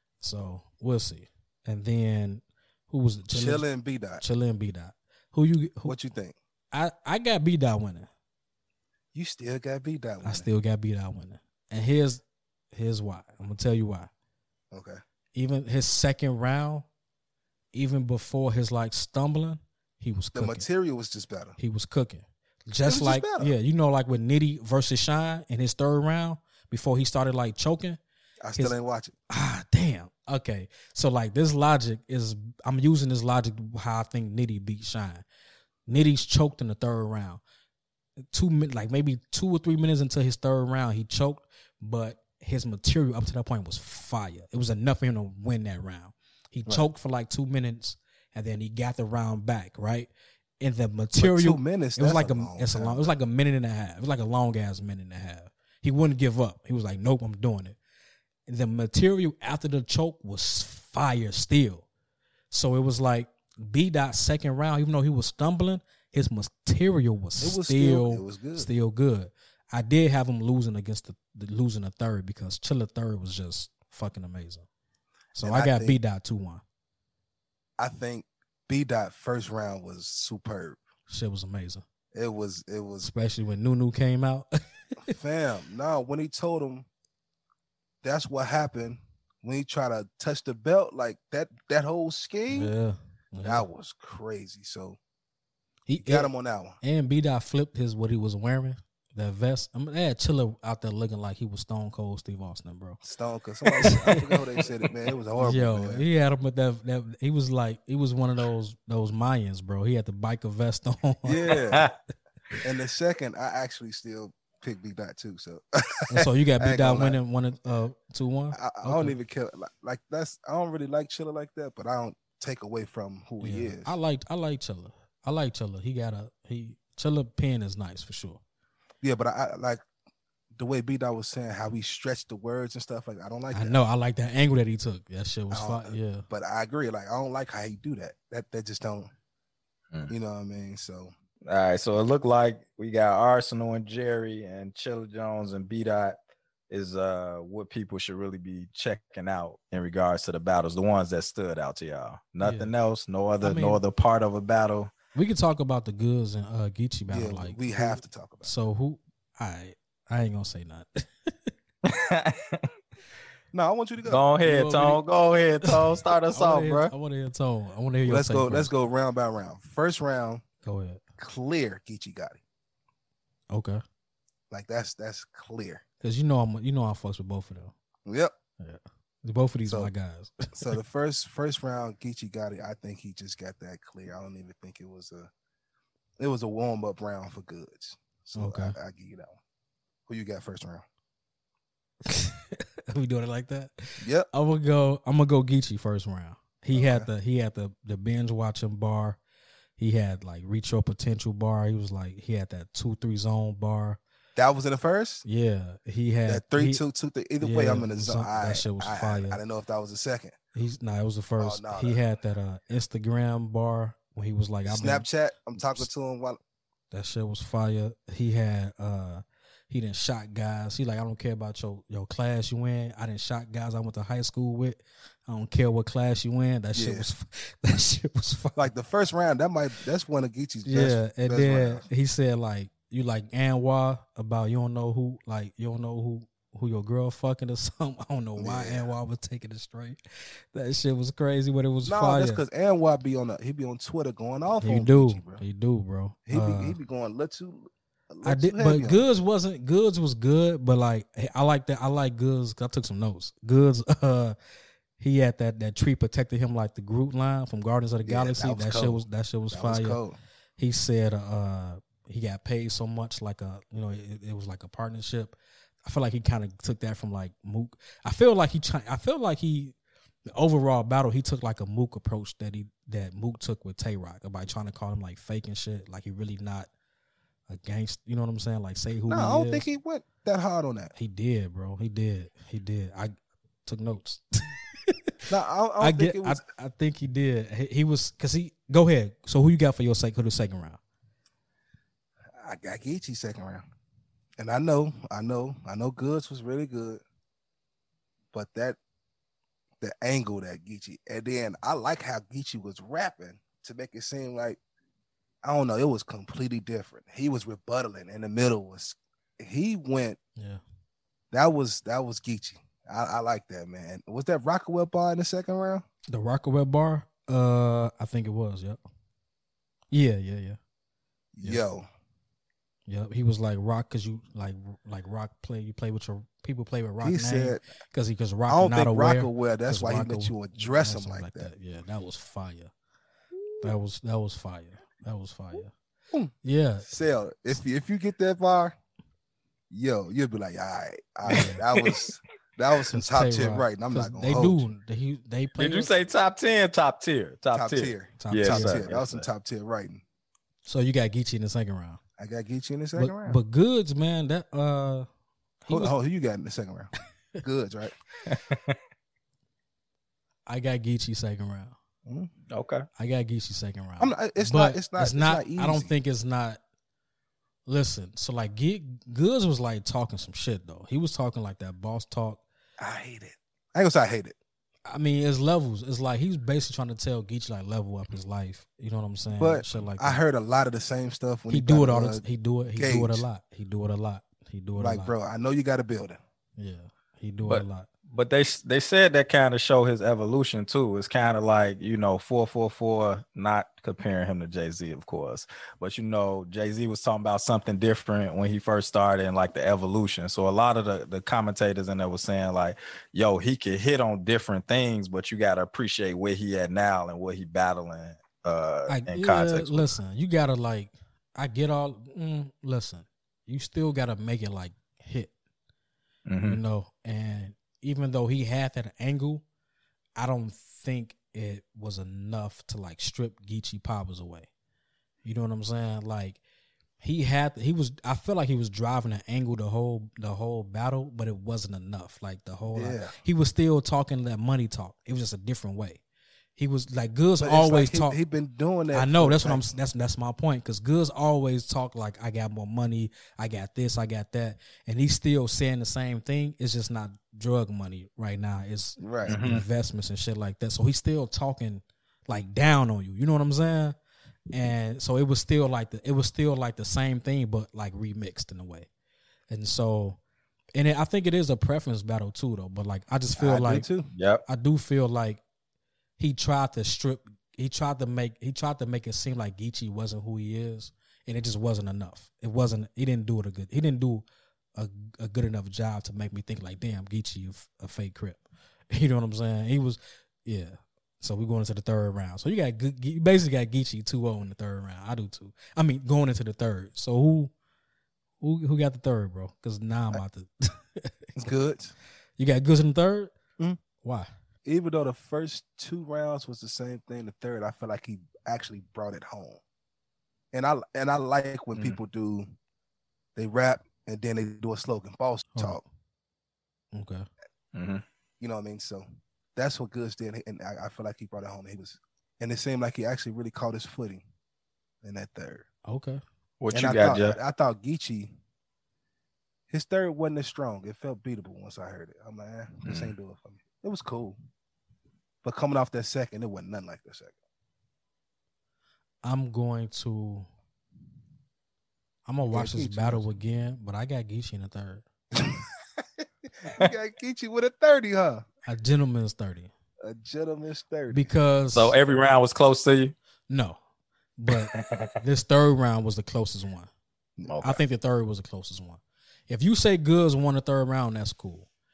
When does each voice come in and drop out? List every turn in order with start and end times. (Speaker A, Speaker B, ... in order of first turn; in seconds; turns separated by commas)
Speaker A: 0.2-3.6, Speaker B: 3.3-4.2, Speaker A: 4.2-5.9, Speaker B: 5.8-6.3, Speaker A: 6.7-8.1, Speaker B: 9.1-10.4, Speaker A: 10.2-14.1, Speaker B: 14.7-15.0, Speaker A: 15.3-16.9, Speaker A: 17.7-20.6, Speaker B: 20.3-21.6, Speaker A: 21.6-28.0, Speaker B: 22.9-23.5, Speaker B: 28.4-29.1, Speaker A: 29.3-35.2, Speaker A: 35.9-37.4, Speaker A: 38.3-50.1, Speaker A: 50.6-57.8, Speaker B: 51.1-53.1, Speaker A: 58.5-61.9, Speaker A: 62.5-74.7, Speaker B: 67.4-68.7, Speaker A: 75.3-76.6, Speaker B: 75.4-76.0, Speaker B: 77.8-80.8, Speaker A: 81.1-81.8, Speaker B: 82.1-83.1, Speaker A: 83.0-85.1, Speaker B: 85.1-86.9, Speaker B: 88.0-92.7, Speaker A: 92.5-93.6, Speaker B: 93.4-95.0, Speaker A: 95.9-96.3, Speaker B: 96.0-96.8, Speaker A: 96.8-103.0, Speaker B: 103.0-106.0, Speaker A: 103.8-104.1, Speaker C: 103.8-104.4, Speaker A: 105.4-111.5, Speaker B: 111.2-111.9, Speaker C: 111.6-111.9, Speaker B: 112.6-117.2, Speaker A: 116.1-119.2, Speaker B: 118.5-123.9, Speaker A: 123.4-128.4, Speaker B: 129.0-129.8, Speaker B: 130.5-133.8, Speaker A: 133.5-136.3, Speaker B: 135.5-139.1, Speaker B: 140.1-141.1, Speaker C: 141.4-146.2, Speaker C: 146.7-154.9, Speaker A: 152.4-152.7, Speaker A: 153.4-153.8, Speaker A: 155.1-161.5, Speaker B: 157.1-158.5, Speaker C: 161.8-162.7, Speaker B: 163.5-164.2, Speaker C: 164.0-166.9, Speaker A: 164.4-165.0, Speaker A: 165.6-168.7, Speaker B: 168.1-170.4, Speaker A: 170.6-171.0, Speaker B: 171.2-172.4, Speaker A: 173.5-173.8, Speaker B: 174.5-175.8, Speaker A: 176.0-177.7, Speaker B: 178.1-178.3, Speaker A: 178.6-180.8, Speaker B: 180.5-185.3, Speaker B: 186.2-189.4, Speaker A: 188.3-188.7, Speaker B: 190.1-190.8, Speaker A: 192.1-199.2, Speaker B: 194.0-194.3, Speaker B: 196.7-197.1, Speaker A: 199.8-204.0, Speaker B: 204.3-205.2, Speaker A: 205.2-206.8, Speaker B: 206.3-210.3, Speaker A: 207.4-209.4, Speaker A: 210.5-215.1, Speaker B: 211.4-212.0, Speaker B: 214.7-216.4, Speaker A: 215.6-215.9, Speaker A: 216.9-228.7, Speaker B: 226.7-227.1, Speaker B: 228.6-231.8, Speaker A: 230.7-240.0, Speaker B: 238.3-238.9, Speaker A: 240.5-242.4, Speaker B: 241.8-245.4, Speaker A: 244.6-246.8, Speaker B: 246.3-249.0, Speaker A: 248.2-254.3, Speaker A: 255.0-260.0, Speaker B: 258.0-260.2, Speaker A: 260.6-269.8, Speaker A: 270.3-276.7, Speaker A: 277.5-279.6, Speaker B: 279.1-280.9, Speaker A: 280.9-283.1, Speaker A: 283.6-284.9, Speaker B: 285.3-286.4, Speaker A: 285.8-290.8, Speaker B: 292.4-293.6, Speaker B: 294.4-297.0, Speaker B: 298.3-298.8, Speaker B: 299.8-304.6, Speaker B: 305.4-310.2, Speaker B: 311.3-315.8, Speaker A: 316.1-318.8, Speaker A: 319.9-320.6, Speaker B: 321.3-321.9, Speaker A: 322.9-332.7, Speaker B: 327.0-327.6, Speaker B: 328.5-331.5, Speaker A: 333.6-335.7, Speaker A: 336.4-336.9, Speaker B: 336.9-338.8, Speaker B: 339.7-344.7, Speaker A: 341.3-341.6, Speaker C: 341.3-342.2, Speaker A: 342.9-345.9, Speaker C: 345.6-349.2, Speaker B: 347.5-350.0, Speaker A: 348.2-348.8, Speaker A: 350.6-352.0, Speaker B: 352.2-353.4, Speaker A: 353.0-355.1, Speaker A: 355.6-355.9, Speaker B: 355.7-357.9, Speaker C: 358.2-358.8, Speaker A: 360.5-361.7, Speaker C: 362.5-362.9, Speaker A: 362.9-366.6, Speaker B: 364.0-365.9, Speaker A: 367.6-372.4, Speaker B: 372.8-374.4, Speaker A: 374.9-380.2, Speaker B: 379.4-382.2, Speaker A: 381.5-385.1, Speaker B: 382.8-383.2, Speaker B: 384.8-386.2, Speaker A: 386.6-387.9, Speaker C: 387.5-409.9, Speaker A: 408.9-415.3, Speaker C: 416.3-416.6, Speaker A: 416.4-419.4, Speaker A: 420.1-424.5, Speaker A: 425.2-426.4, Speaker A: 427.0-436.0, Speaker B: 432.7-433.1, Speaker A: 436.6-438.2, Speaker B: 437.4-439.7, Speaker A: 438.9-453.9, Speaker B: 449.0-449.3, Speaker C: 449.3-449.6, Speaker A: 454.5-458.9, Speaker A: 459.5-460.2, Speaker A: 460.8-463.9, Speaker B: 463.4-464.1, Speaker C: 464.1-464.4, Speaker A: 464.4-465.4, Speaker A: 466.2-474.2, Speaker A: 474.8-487.5, Speaker A: 488.4-491.2, Speaker B: 491.4-491.9, Speaker A: 492.4-493.3, Speaker A: 494.0-494.3, Speaker B: 494.6-499.6, Speaker B: 500.5-502.5, Speaker B: 503.4-505.8, Speaker A: 505.5-505.8, Speaker A: 506.9-507.3, Speaker C: 507.7-508.0, Speaker B: 508.4-509.0, Speaker B: 509.6-514.2, Speaker B: 515.0-515.6, Speaker A: 515.9-516.2, Speaker C: 516.6-517.4, Speaker B: 516.7-518.3, Speaker B: 519.7-524.4, Speaker C: 522.9-523.1, Speaker B: 525.4-527.3, Speaker A: 529.2-530.5, Speaker A: 532.2-535.0, Speaker B: 532.5-533.3, Speaker B: 535.4-538.4, Speaker A: 538.6-539.7, Speaker B: 540.0-541.3, Speaker A: 541.1-542.0, Speaker C: 541.7-543.1, Speaker A: 543.5-543.8, Speaker A: 544.4-546.9, Speaker C: 544.7-545.1, Speaker C: 547.4-547.8, Speaker A: 547.6-551.7